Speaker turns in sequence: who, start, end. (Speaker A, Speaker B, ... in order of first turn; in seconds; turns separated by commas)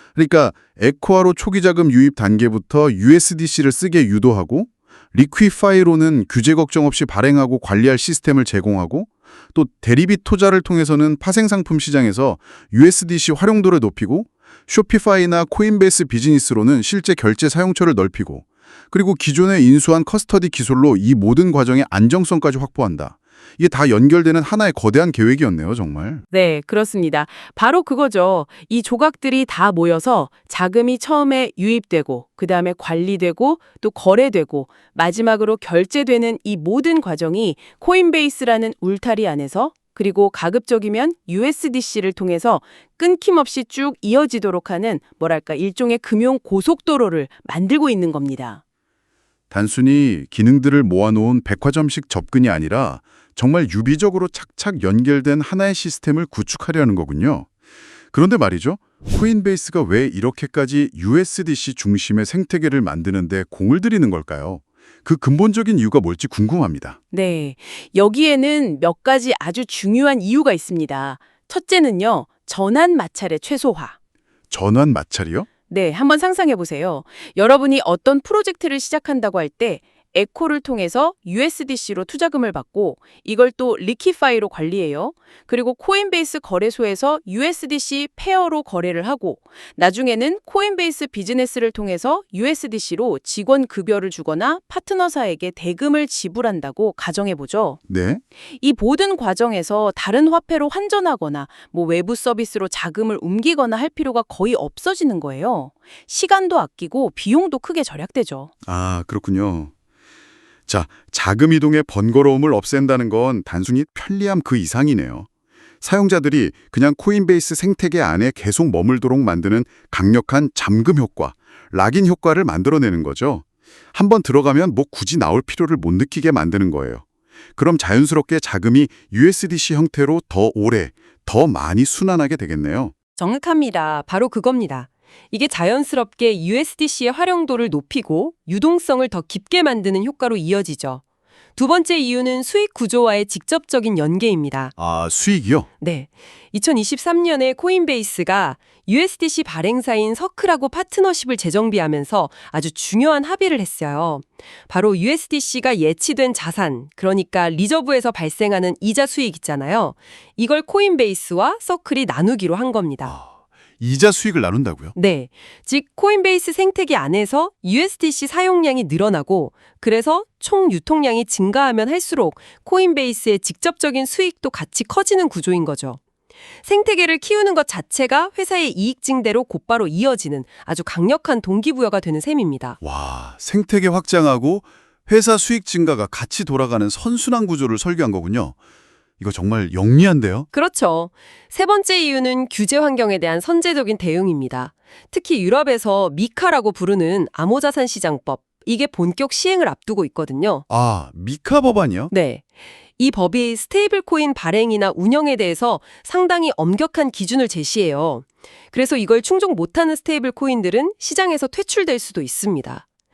Speaker A: 0.1-26.2, Speaker B: 26.3-48.6, Speaker A: 49.5-57.5, Speaker A: 58.1-67.0, Speaker B: 67.1-74.0, Speaker A: 74.5-75.5, Speaker B: 75.7-97.8, Speaker A: 97.9-98.2, Speaker B: 98.5-108.5, Speaker A: 108.7-109.7, Speaker A: 110.7-115.3, Speaker A: 115.8-127.0, Speaker A: 127.5-132.9, Speaker C: 133.2-141.0, Speaker C: 141.6-144.7, Speaker A: 144.8-145.7, Speaker C: 145.8-163.1, Speaker A: 163.0-164.9, Speaker C: 164.9-176.0, Speaker C: 176.6-182.8, Speaker A: 182.8-188.6, Speaker A: 189.2-190.5, Speaker C: 190.5-200.6, Speaker A: 200.7-202.1, Speaker C: 202.1-202.4, Speaker C: 203.0-212.8